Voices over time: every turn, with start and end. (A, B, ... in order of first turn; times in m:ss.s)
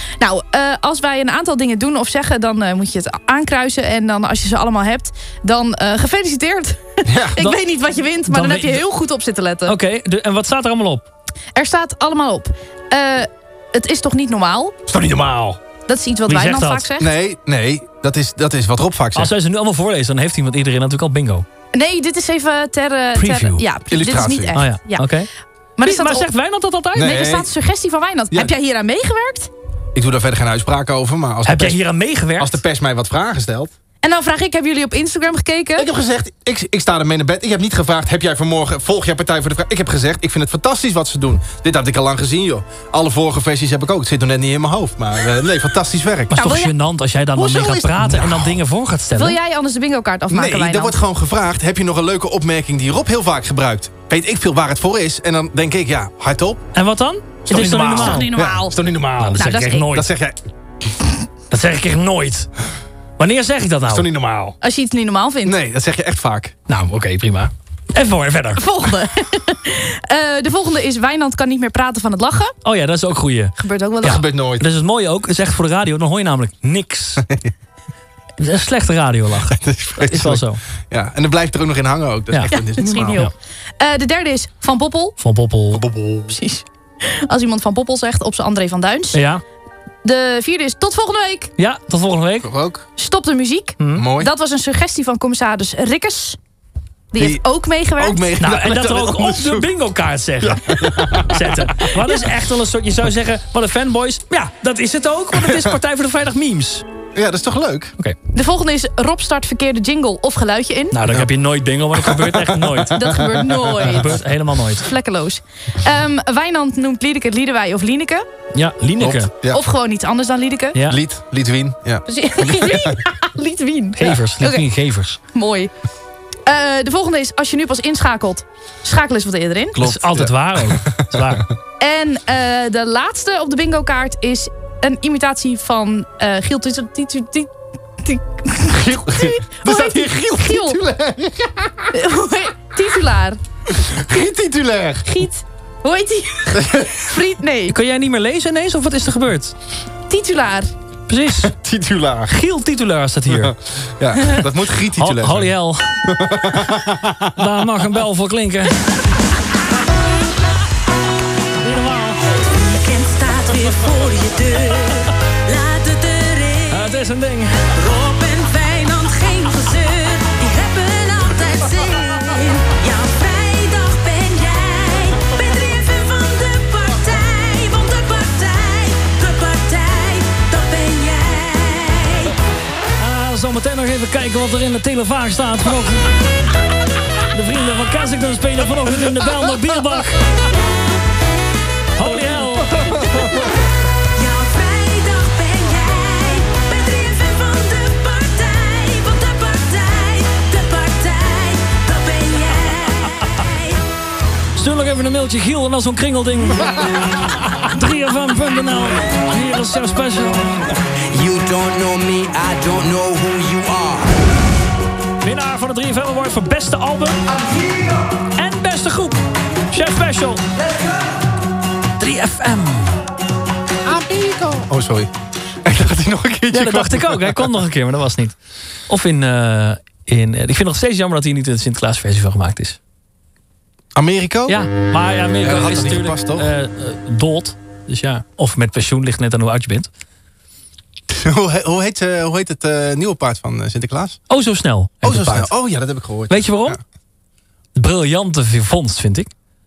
0:00.2-0:09.8 A
0:07.0-0:07.4 B
0:08.3-0:08.8 C
0:09.6-0:11.0 C
0:11.6-0:14.8 A
0:14.9-0:15.6 B
0:15.9-0:17.1 A
0:16.3-0:16.9 C
0:17.0-0:19.3 B
0:19.2-0:21.4 C
0:21.7-0:25.1 A
0:23.2-0:23.6 C
0:23.9-0:24.6 B
0:24.5-0:25.3 C
0:25.8-0:26.3 A
0:25.8-0:27.2 C
0:26.9-0:27.5 B
0:27.0-0:29.5 A
0:29.9-0:31.8 B
0:31.4-0:32.6 C
0:32.4-0:33.7 B
0:34.0-0:35.9 A
0:35.8-0:46.5 B
0:46.3-0:49.4 C
0:46.4-0:46.7 A
0:47.4-0:48.6 B
0:49.1-0:51.0 A
0:50.3-0:56.6 B
0:56.7-0:58.3 C
0:57.4-1:00.4 B
0:57.9-0:58.8 A
0:59.2-1:00.1 C
0:59.4-0:59.9 A
1:01.5-1:02.5 C
1:03.2-1:04.1 C
1:03.8-1:04.6 B
1:04.6-1:05.6 A
1:05.4-1:06.5 B
1:06.7-1:08.6 C
1:08.6-1:12.5 A
1:12.6-1:17.2 C
1:13.6-1:14.2 A
1:14.0-1:14.7 B
1:18.4-1:20.6 C
1:19.5-1:23.2 B
1:22.5-1:25.2 A
1:25.2-1:25.8 C
1:25.7-1:26.4 B
1:26.3-1:29.2 A
1:29.1-1:29.4 C
1:30.0-1:31.5 A
1:31.6-1:32.5 C
1:32.4-1:32.8 B
1:33.0-1:36.4 A
1:33.8-1:34.1 C
1:33.9-1:34.3 B
1:37.1-1:38.2 A
1:37.2-1:37.4 B
1:38.0-1:39.7 B
1:38.4-1:46.8 C
1:40.4-1:41.9 B
1:45.3-1:45.7 B
1:47.1-1:47.9 B
1:48.3-1:51.0 A
1:50.9-1:52.9 C
1:51.9-1:53.9 B
1:52.9-1:54.2 A
1:53.8-1:54.9 C
1:54.8-1:58.2 A
1:58.5-1:59.3 C
1:59.0-1:59.6 B
1:59.4-2:00.8 A
2:00.7-2:01.0 C
2:00.9-2:03.0 B
2:02.0-2:04.6 A
2:04.0-2:05.2 C
2:05.3-2:05.7 A
2:06.4-2:09.8 A
2:09.7-2:11.5 B
2:09.8-2:11.4 C
2:11.8-2:17.5 A
2:18.0-2:20.8 A
2:18.7-2:21.9 B
2:21.9-2:23.4 A
2:23.7-2:25.3 B
2:25.0-2:27.7 A
2:26.5-2:27.0 B
2:27.7-2:29.5 C
2:30.1-2:30.7 A
2:31.1-2:31.5 C
2:31.4-2:32.3 B
2:32.3-2:33.5 C
2:33.3-2:35.5 B
2:35.0-2:36.0 C
2:36.0-2:37.3 B
2:37.4-2:38.7 C
2:41.6-2:42.2 C
2:42.2-2:47.0 D
2:46.7-2:47.6 C
2:47.7-3:02.3 D
3:03.0-3:06.1 C
3:07.3-3:10.2 C
3:12.0-3:13.3 C
3:13.1-3:13.4 B
3:14.1-3:23.8 D
3:24.6-3:30.6 C
3:31.1-3:34.2 E
3:35.2-3:37.2 C
3:38.4-3:40.4 C
3:42.0-3:43.0 C
3:43.8-3:45.1 B
3:45.6-3:47.5 B
3:46.5-3:48.4 C
3:48.9-3:52.8 C
3:54.0-3:54.6 B
3:54.5-3:59.9 C
3:55.4-3:56.5 B
4:01.1-4:04.2 B
4:04.3-4:05.5 C
4:05.0-4:06.8 B
4:06.3-4:06.8 C
4:07.7-4:09.3 C